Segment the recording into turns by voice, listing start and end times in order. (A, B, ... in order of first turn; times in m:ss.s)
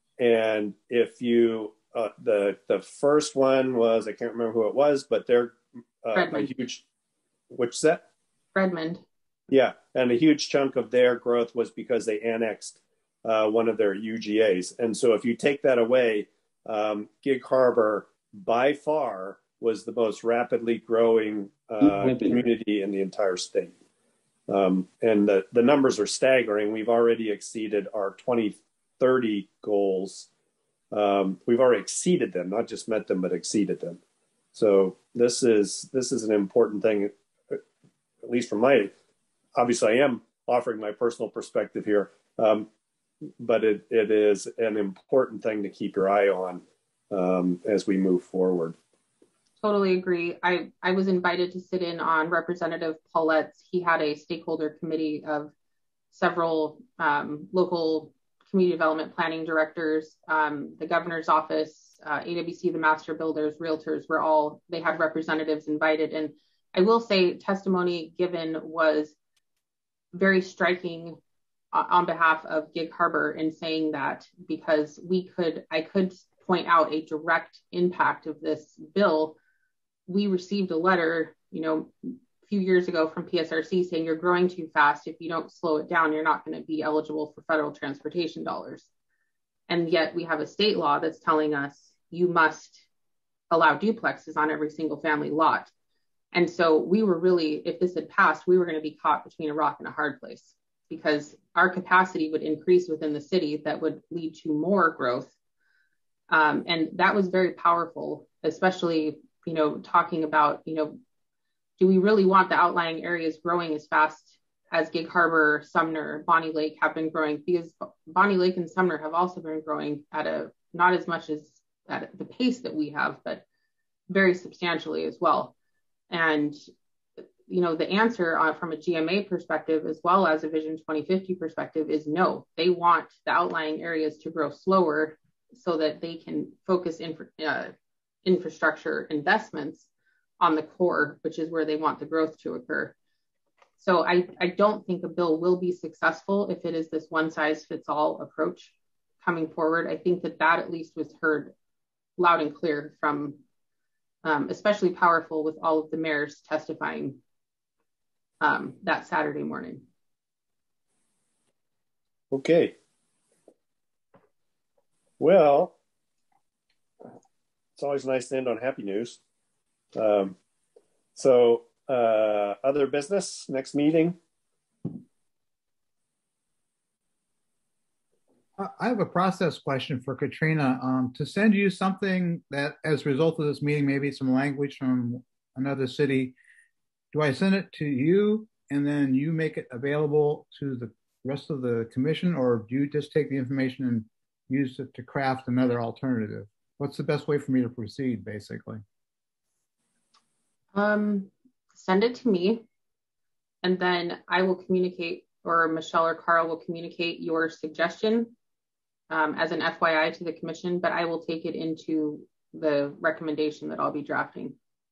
0:00.2-0:06.8 A
0:06.1-0:06.5 B
0:07.5-0:08.0 A
0:08.6-0:09.0 B
0:09.5-0:23.7 A
0:24.5-0:30.3 A
0:30.9-0:34.0 A
0:34.5-0:37.6 A
0:38.2-0:38.9 A
0:39.6-0:42.7 A
0:43.4-0:48.8 A
0:49.6-0:55.5 B
0:56.1-1:09.2 B
1:10.1-1:11.2 B
1:11.7-1:19.4 B
1:20.1-1:28.9 B
1:29.7-1:32.8 B
1:33.5-1:35.7 B
1:36.3-1:45.3 B
1:46.3-1:51.0 B
1:51.8-2:03.4 B
2:04.1-2:05.5 B
2:06.1-2:06.6 B
2:07.5-2:17.7 B
2:18.2-2:19.9 B
2:20.4-2:23.0 B
2:23.8-2:31.5 B
2:32.2-2:33.4 B
2:34.2-2:37.2 B
2:38.4-2:39.8 B
2:42.3-2:42.8 A
2:45.2-2:45.8 A
2:47.8-2:49.2 A
2:50.0-2:50.4 A
2:51.2-2:54.2 A
2:58.6-3:06.4 C
3:07.1-3:18.8 C
3:20.7-3:22.7 B
3:23.6-3:28.3 B
3:29.1-3:34.6 B